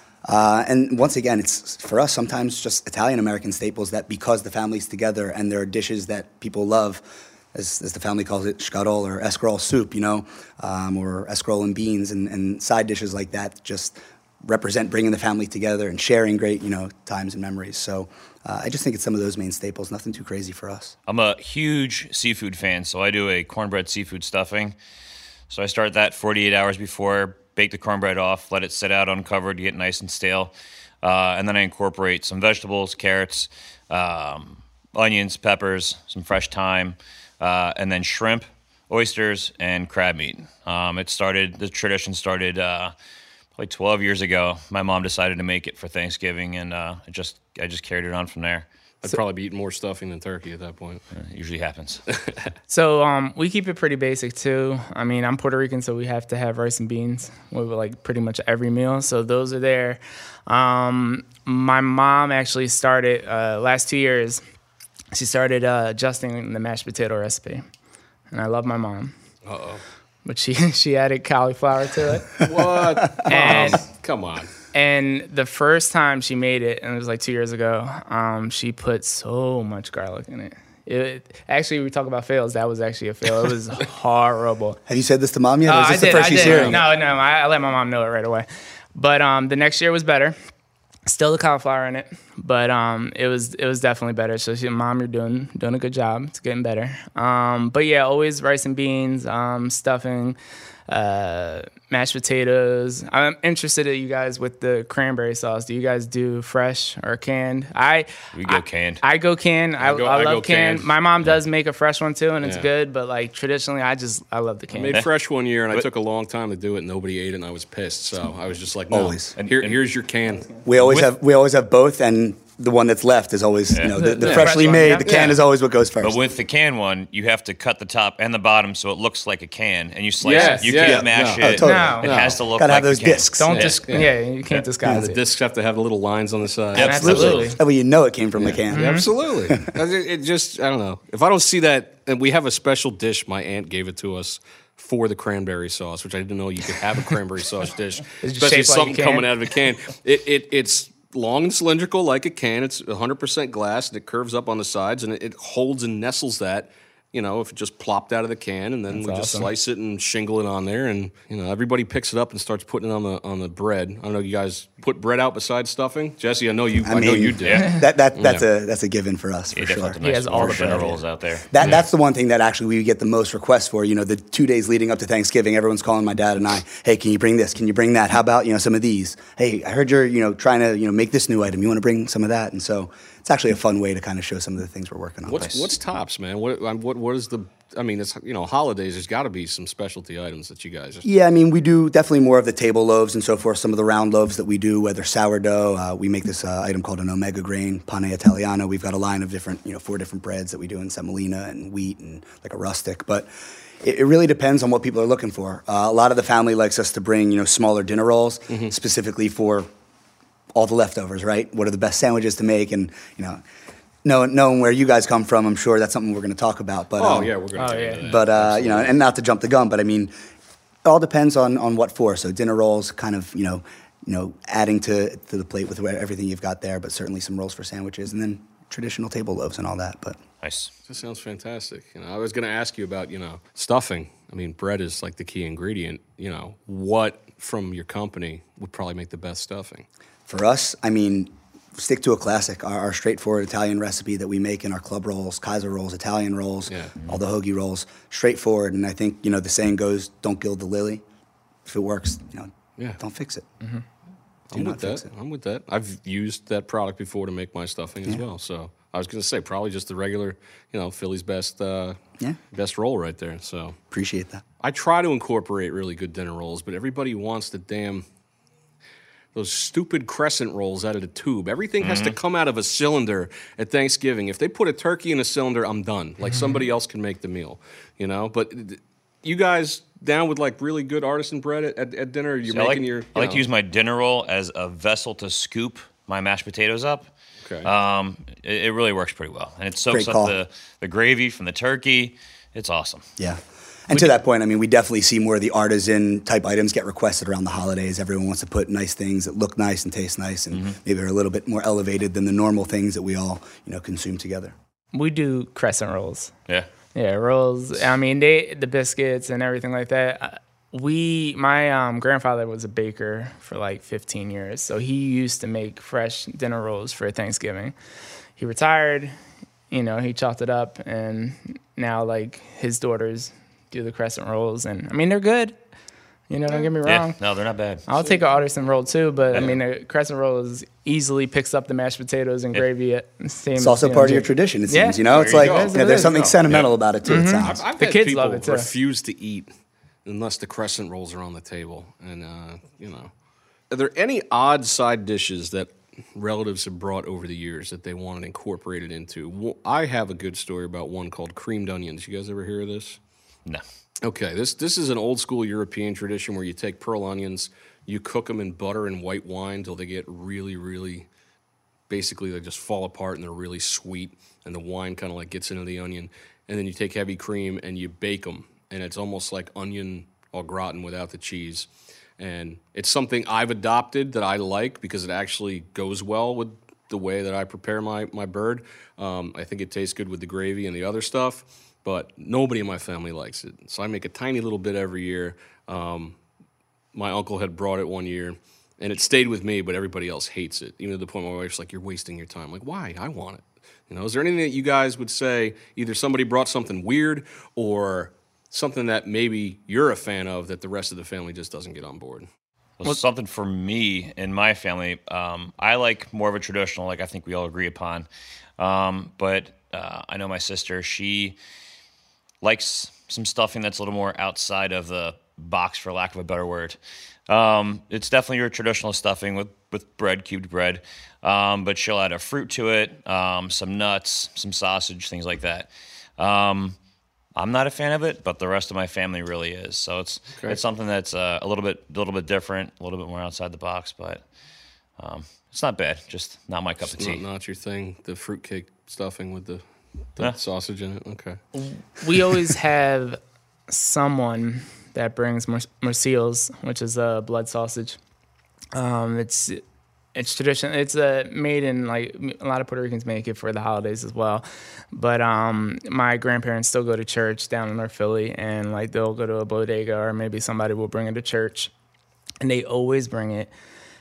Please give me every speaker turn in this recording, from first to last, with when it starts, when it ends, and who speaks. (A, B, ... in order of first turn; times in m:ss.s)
0:00.2-0:21.0 A
0:21.1-0:24.8 B
0:25.5-0:42.9 B
0:43.6-0:48.7 B
0:49.0-0:51.0 C
0:51.1-0:52.0 B
0:52.1-0:52.5 C
0:52.7-1:04.4 D
1:05.1-1:07.6 D
1:08.3-1:09.2 D
1:09.5-1:09.8 C
1:10.2-1:12.4 D
1:12.4-1:14.5 C
1:13.2-1:13.8 D
1:14.7-1:24.8 D
1:24.9-1:26.8 A
1:25.7-1:30.4 D
1:26.3-1:26.8 C
1:31.1-1:55.0 D
1:48.3-1:49.0 B
1:49.8-1:50.9 C
1:54.7-2:01.1 C
1:58.9-1:59.3 A
1:59.4-1:59.8 B
2:00.6-2:06.2 A
2:03.9-2:05.3 D
2:04.2-2:04.5 C
2:05.1-2:05.3 C
2:06.0-2:13.4 B
2:10.2-2:12.4 C
2:10.3-2:10.7 D
2:10.8-2:13.7 A
2:11.6-2:12.1 D
2:13.4-2:15.2 D
2:13.5-2:17.4 C
2:16.8-2:17.4 B
2:16.8-2:17.6 D
2:16.8-2:19.8 A
2:18.4-2:48.4 C
2:18.7-2:19.1 D
2:28.2-2:29.3 D
2:38.9-2:39.5 D
2:46.8-3:05.6 A
2:47.4-2:47.7 B
2:49.5-2:51.7 B
2:50.0-2:51.0 D
3:05.3-3:11.0 C
3:05.4-3:05.6 B
3:11.0-3:23.3 A
3:23.8-3:29.7 A
3:28.5-3:28.7 C
3:30.5-3:33.4 A
3:34.0-3:37.3 A
3:37.0-3:39.0 C
3:37.6-3:38.0 D
3:38.0-3:40.1 A
3:40.8-3:50.2 A
3:50.4-3:50.7 B
3:50.9-3:59.9 C
4:00.3-4:11.0 A
4:06.7-4:07.0 C
4:11.7-4:13.4 A
4:14.5-4:22.0 C
4:14.5-4:15.1 A
4:22.5-4:23.8 C
4:23.9-4:24.4 A
4:24.6-4:28.0 C
4:29.3-4:43.4 C
4:31.8-4:32.2 B
4:42.5-4:47.1 B
4:47.4-4:47.7 C
4:47.6-4:53.1 B
4:49.9-4:50.4 A
4:53.2-5:04.6 A
5:04.9-5:06.3 D
5:06.9-5:17.7 D
5:18.4-5:19.2 D
5:19.7-5:25.6 D
5:26.3-5:27.2 D
5:26.8-5:27.8 B
5:27.9-5:36.3 D
5:33.6-5:37.6 A
5:35.1-5:36.7 C
5:37.1-5:38.7 D
5:37.4-5:39.5 C
5:40.0-5:43.1 C
5:43.7-5:53.0 C
5:54.0-6:01.1 C
6:01.9-6:11.7 C
6:12.2-6:26.2 C
6:26.9-6:42.3 C
6:42.8-6:48.1 B
6:48.6-6:51.4 B
6:52.4-7:06.8 B
7:07.4-7:14.2 B
7:15.0-7:17.2 B
7:16.8-7:19.6 C
7:20.2-7:21.4 C
7:21.5-7:28.0 D
7:28.7-7:29.6 D
7:30.2-7:41.7 D
7:42.4-7:43.5 D